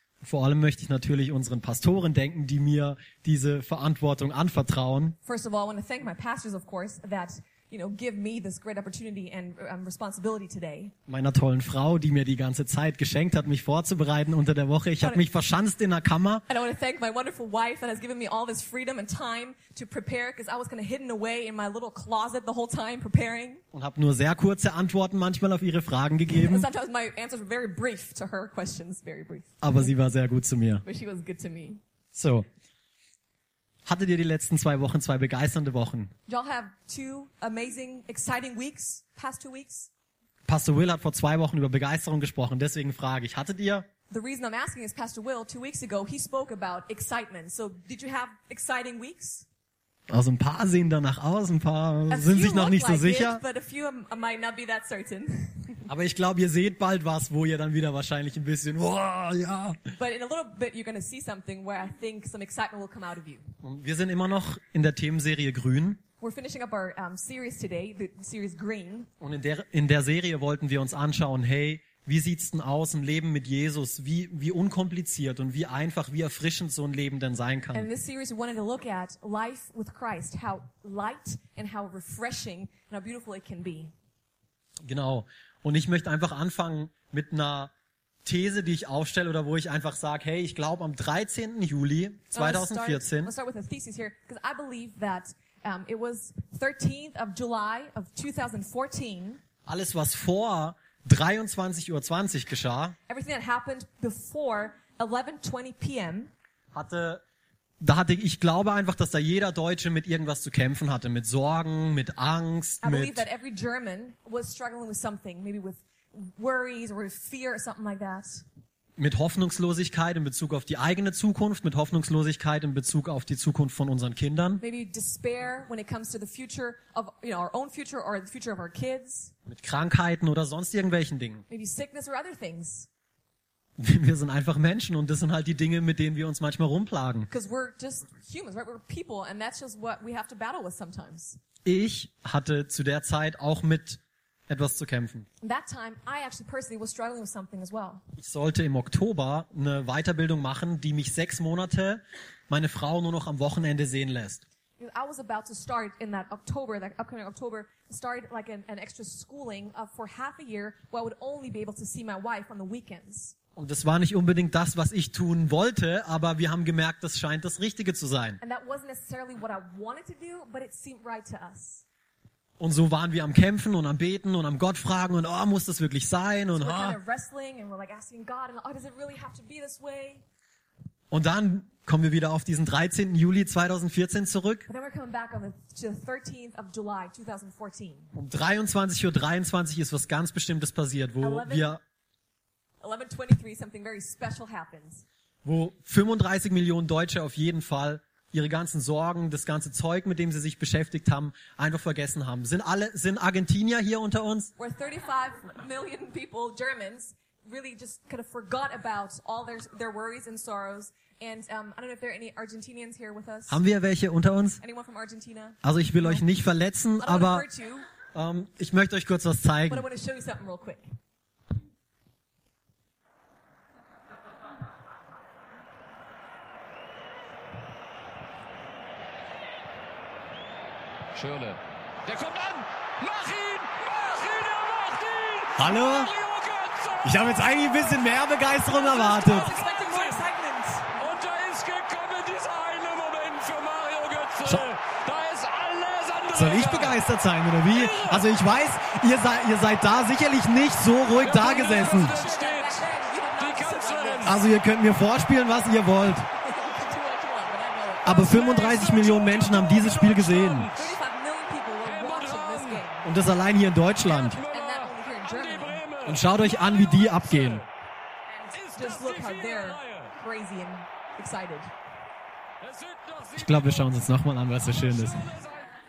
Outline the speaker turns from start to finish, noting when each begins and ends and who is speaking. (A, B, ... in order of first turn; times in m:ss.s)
0:00.2-0:05.2 A
0:05.2-0:10.9 B
0:11.1-0:16.4 A
0:16.5-0:23.6 B
0:23.7-0:26.7 A
0:26.3-0:29.9 B
0:29.6-0:30.8 A
0:30.8-0:31.8 B
0:32.1-0:32.4 A
0:33.8-0:36.1 A
0:36.3-0:39.9 B
0:40.5-0:43.8 A
0:44.1-0:49.4 B
0:50.1-0:53.4 A
0:52.1-0:55.8 B
0:55.9-0:59.9 A
1:00.0-1:03.5 B
1:03.6-1:06.0 A
1:06.2-1:09.1 B
1:09.2-1:17.9 A
1:17.7-1:23.9 B
1:24.8-1:27.7 A
1:28.2-1:33.3 A
1:32.3-1:39.4 B
1:39.6-1:43.0 A
1:43.1-1:46.3 B
1:46.7-1:47.2 A
1:47.8-1:53.2 A
1:52.8-1:58.4 B
1:59.0-2:04.6 A
2:04.6-2:09.3 B
2:09.4-2:11.4 A
2:11.5-2:12.9 B
2:13.8-2:17.3 A
2:17.3-2:21.4 B
2:21.6-2:25.3 A
2:25.4-2:28.0 B
2:28.2-2:34.4 A
2:34.8-2:43.4 B
2:43.6-2:48.4 A
2:48.4-2:51.8 B
2:52.6-2:57.0 A
2:56.5-3:00.2 B
3:01.1-3:04.7 A
3:04.7-3:08.1 B
3:08.1-3:11.8 A
3:11.2-3:11.8 B
3:12.8-3:15.0 B
3:15.4-3:24.5 A
3:24.6-3:33.6 B
3:33.5-3:34.6 A
3:34.6-3:36.2 B
3:35.6-3:37.4 A
3:37.0-3:37.8 B
3:38.1-3:39.8 A
3:39.7-3:40.8 B
3:51.1-4:00.2 C
3:55.6-3:56.1 A
3:57.0-3:59.5 A
3:58.7-4:01.0 B
4:01.0-4:07.0 C
4:06.3-4:12.2 A
4:07.7-4:08.2 C
4:11.2-4:14.4 C
4:11.4-4:14.4 B
4:14.2-4:16.3 A
4:16.3-4:19.2 B
4:18.0-4:20.7 A
4:18.3-4:21.0 C
4:20.7-4:23.1 B
4:21.8-4:22.8 C
4:23.0-4:24.4 A
4:24.1-4:27.6 C
4:24.1-4:25.8 B
4:26.0-4:27.6 A
4:28.4-4:31.7 B
4:28.5-4:30.1 C
4:32.6-4:33.9 C
4:33.3-4:35.3 A
4:34.7-4:35.7 C